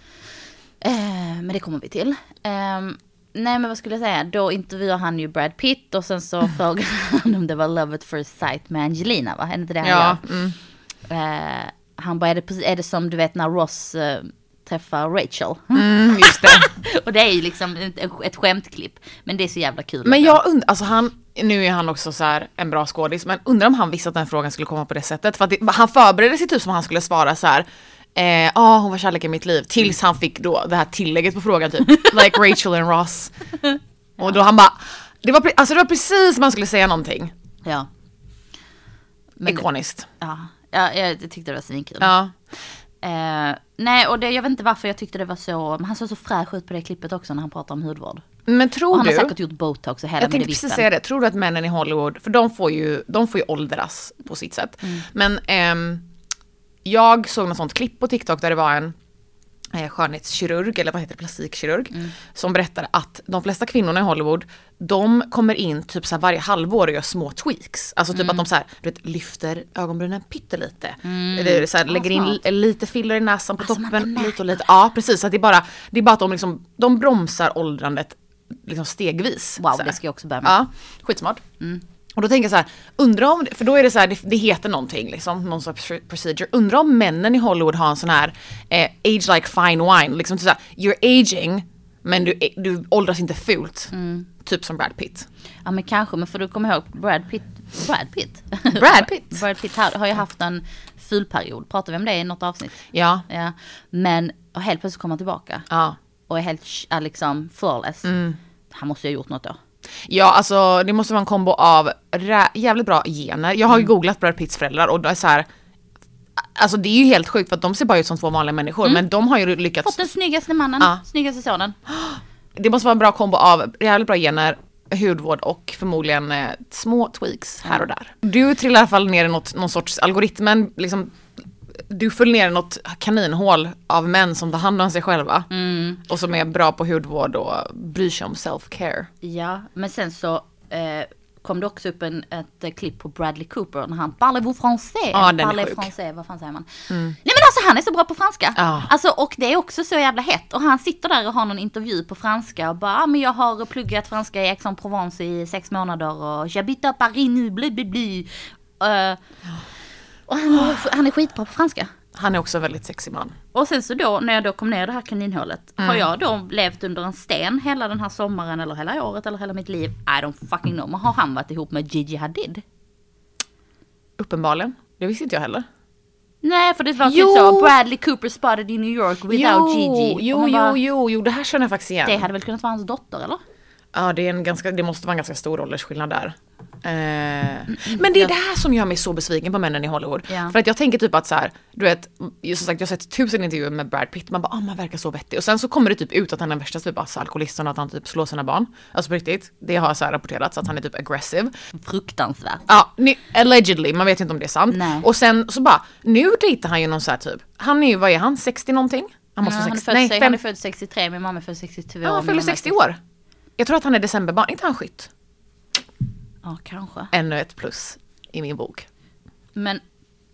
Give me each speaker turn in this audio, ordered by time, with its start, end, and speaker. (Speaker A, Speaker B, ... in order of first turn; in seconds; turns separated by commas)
Speaker A: 0.8-10.2, Speaker B: 9.8-10.6, Speaker A: 11.1-20.4, Speaker B: 15.7-16.7, Speaker B: 20.0-33.3, Speaker B: 34.2-37.3, Speaker A: 39.4-39.6, Speaker B: 39.4-40.1, Speaker A: 40.2-42.1, Speaker B: 42.0-42.3, Speaker A: 43.0-48.2, Speaker B: 48.5-49.3, Speaker A: 48.9-50.8, Speaker B: 50.2-56.0, Speaker B: 56.8-58.9, Speaker B: 59.7-81.4, Speaker A: 68.1-68.4, Speaker A: 71.0-72.4, Speaker A: 73.6-74.6, Speaker A: 79.6-80.5, Speaker B: 82.2-93.9, Speaker A: 93.9-94.3, Speaker B: 94.4-95.3, Speaker A: 95.6-105.7, Speaker B: 98.7-99.4, Speaker B: 102.9-103.2, Speaker B: 105.7-106.0, Speaker A: 106.3-108.1, Speaker B: 108.0-108.4, Speaker A: 108.7-109.6, Speaker B: 110.1-115.5, Speaker B: 116.4-120.0, Speaker A: 119.8-121.8, Speaker B: 121.9-131.2, Speaker B: 131.9-135.5, Speaker A: 135.5-136.0, Speaker B: 136.1-139.1, Speaker A: 139.2-159.2, Speaker B: 145.1-145.9, Speaker B: 146.9-147.2, Speaker B: 148.6-148.9, Speaker A: 160.3-161.9, Speaker B: 162.2-163.4, Speaker A: 163.5-172.6, Speaker B: 165.8-166.1, Speaker B: 174.2-175.7, Speaker A: 176.4-180.8, Speaker B: 177.0-177.7, Speaker B: 179.3-182.2, Speaker A: 182.1-183.4, Speaker B: 183.9-201.5, Speaker A: 187.7-188.3, Speaker A: 190.3-190.5, Speaker A: 201.8-202.7, Speaker B: 202.7-210.4, Speaker A: 204.7-205.1, Speaker A: 209.4-212.8, Speaker B: 212.0-213.0, Speaker B: 213.6-215.1, Speaker A: 216.4-217.1, Speaker B: 217.1-218.9, Speaker A: 219.5-219.8